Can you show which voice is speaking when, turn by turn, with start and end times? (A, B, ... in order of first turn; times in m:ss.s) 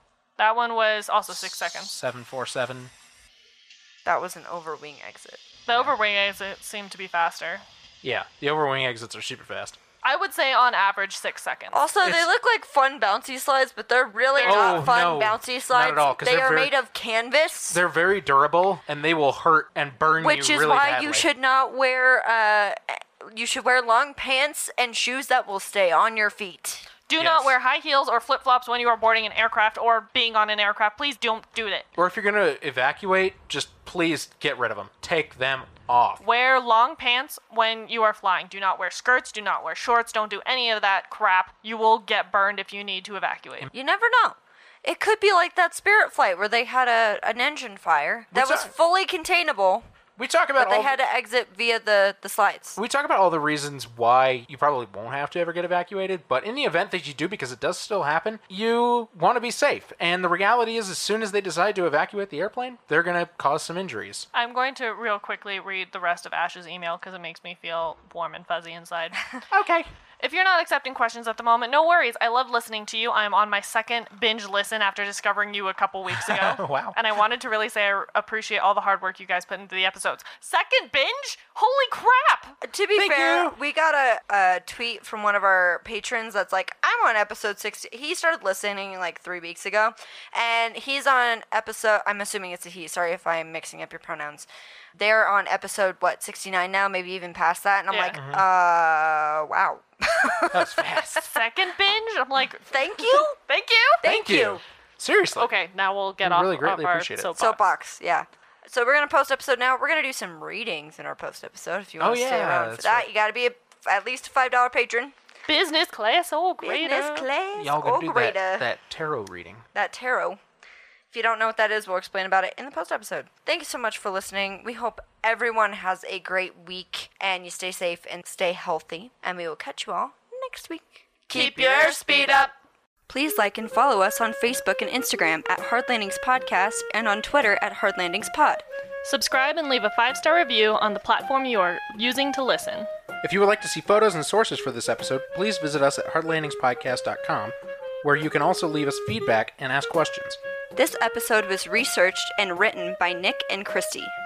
0:00.4-0:01.9 A
0:01.4-0:02.9 B
0:04.0-0:05.4 C
0:05.7-0:07.6 A
0:08.0-0:09.8 B
0:10.0-0:11.8 A
0:11.7-0:17.8 C
0:12.0-0:12.3 B
0:14.4-0:14.9 A
0:14.4-0:16.7 B
0:17.7-0:21.3 B
0:20.2-0:26.9 C
0:27.1-0:31.9 A
0:27.2-0:27.5 B
0:32.0-0:36.2 B
0:36.2-0:43.7 A
0:43.7-0:49.8 C
0:48.3-0:48.7 B
0:50.2-0:51.0 B
0:50.6-0:52.8 C
0:52.8-1:04.3 B
1:04.3-1:09.4 A
1:09.5-1:09.9 B
1:10.2-1:22.6 A
1:16.2-1:17.0 B
1:22.6-1:40.8 C
1:22.9-1:23.5 B
1:37.9-1:38.2 A
1:38.1-1:38.4 B
1:40.5-1:41.4 B
1:41.1-1:44.4 A
1:42.7-1:43.4 C
1:44.0-1:44.6 C
1:44.0-1:45.5 B
1:45.4-1:47.6 A
1:46.2-1:47.3 B
1:47.4-1:55.1 C
1:52.0-1:53.1 B
1:55.5-1:57.3 A
1:56.6-1:58.6 C
1:57.6-1:59.6 B
1:59.7-2:00.4 C
2:01.1-2:12.5 C
2:11.3-2:12.5 A
2:13.1-2:18.6 C
2:19.0-2:22.9 A
2:23.2-2:30.4 B
2:30.8-2:34.1 C